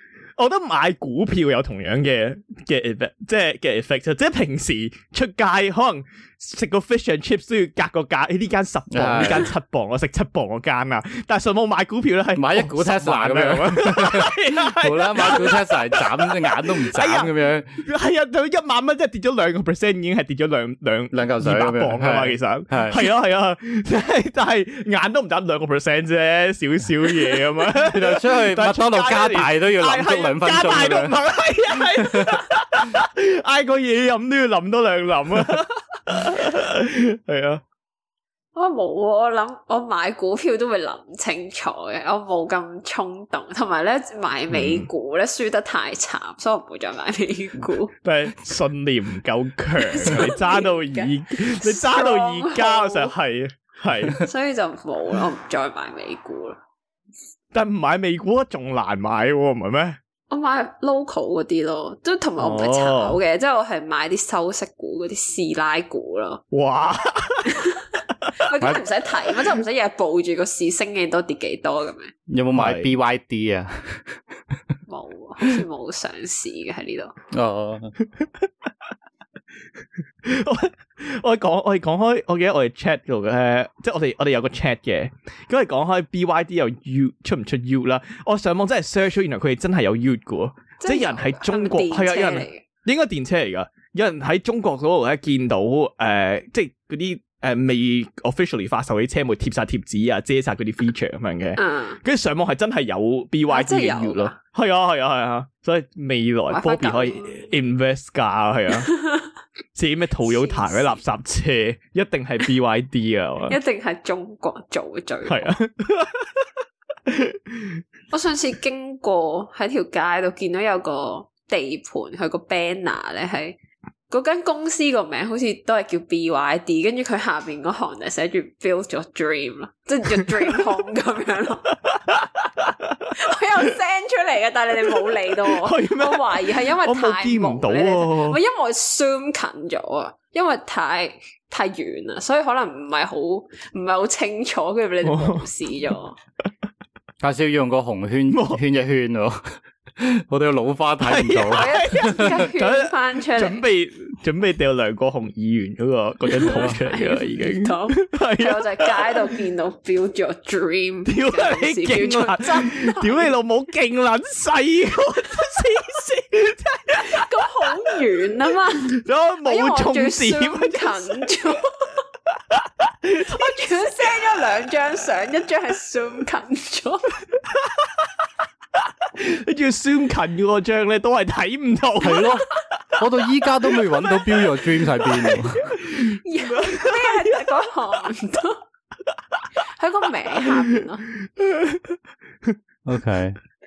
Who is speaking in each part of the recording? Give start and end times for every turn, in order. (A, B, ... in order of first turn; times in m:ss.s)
0:00.4-0:37.6 A
0:08.9-0:09.5 B
0:12.4-0:17.7 B
0:21.1-0:23.0 B
0:27.7-0:31.2 B
0:31.9-0:32.4 B
0:38.6-0:47.9 C
0:44.5-0:44.9 A
0:48.0-0:54.2 A
0:49.8-0:53.1 C
0:54.2-0:56.6 C
0:57.5-1:00.0 A
1:00.3-1:06.4 C
1:02.4-1:03.2 A
1:06.5-1:08.4 A
1:07.5-1:12.1 C
1:12.3-1:14.6 B
1:12.6-1:12.9 A
1:14.9-1:17.1 C
1:17.3-1:17.9 B
1:18.1-1:18.5 A
1:20.2-1:48.9 A
1:30.8-1:32.6 C
1:41.6-1:42.0 C
1:43.5-1:44.4 C
1:46.5-1:47.5 C
1:48.9-1:49.3 C
1:49.8-1:53.6 A
1:50.2-1:51.0 C
1:53.5-1:55.5 C
1:55.3-1:56.5 A
1:57.1-1:57.8 A
1:58.1-2:03.6 C
2:04.1-2:11.8 C
2:10.2-2:10.5 A
2:11.8-2:13.3 A
2:13.2-2:26.2 C
2:14.8-2:18.4 A
2:25.0-2:25.5 A
2:27.2-2:29.4 B
2:28.3-2:28.6 A
2:30.0-2:32.5 B
2:31.0-2:39.3 A
2:31.5-2:33.6 C
2:36.3-2:43.3 C
2:36.4-2:36.8 B
2:41.1-2:47.9 A
2:47.0-2:52.0 C
2:48.8-2:51.5 A
2:52.5-2:54.1 A
2:53.2-2:57.1 C
2:57.5-2:58.1 A
2:58.8-3:02.4 A
3:02.0-3:02.5 B
3:03.0-3:05.6 B
3:05.1-3:07.5 A
3:06.0-3:08.6 C
3:09.1-3:09.5 A
3:09.7-3:11.1 C
3:10.4-3:12.6 A
3:12.9-3:13.4 B